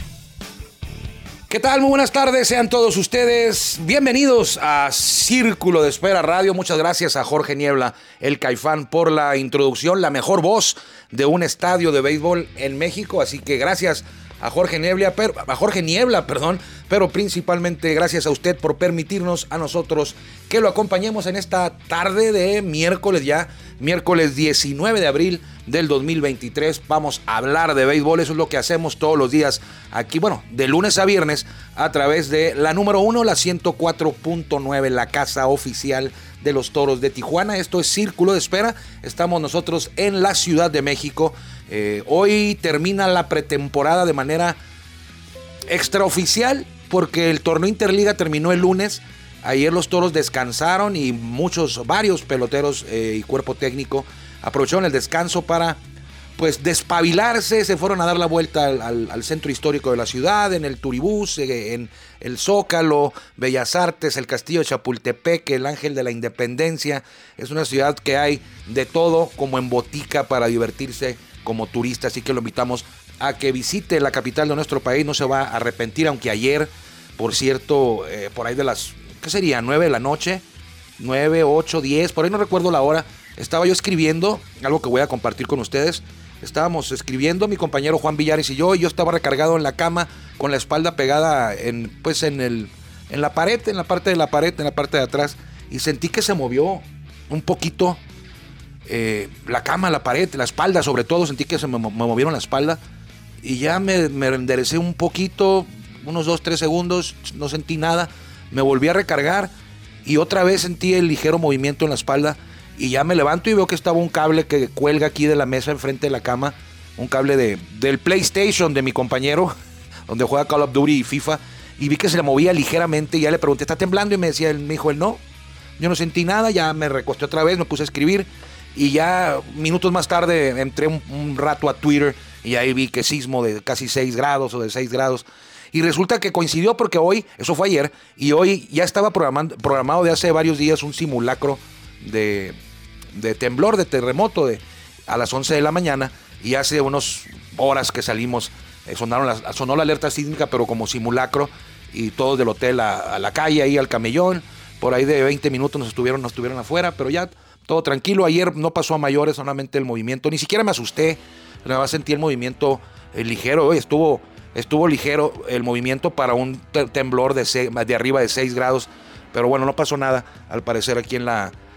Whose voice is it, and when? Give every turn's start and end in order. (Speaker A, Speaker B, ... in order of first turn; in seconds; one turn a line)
Speaker A: 1.5-44.6
Speaker A: 45.7-55.8
Speaker A: 56.4-80.4
Speaker A: 81.0-98.0
Speaker A: 98.9-102.8
Speaker A: 103.4-109.5
Speaker A: 110.0-119.5
Speaker A: 120.1-125.2
Speaker A: 125.8-142.6
Speaker A: 143.1-171.5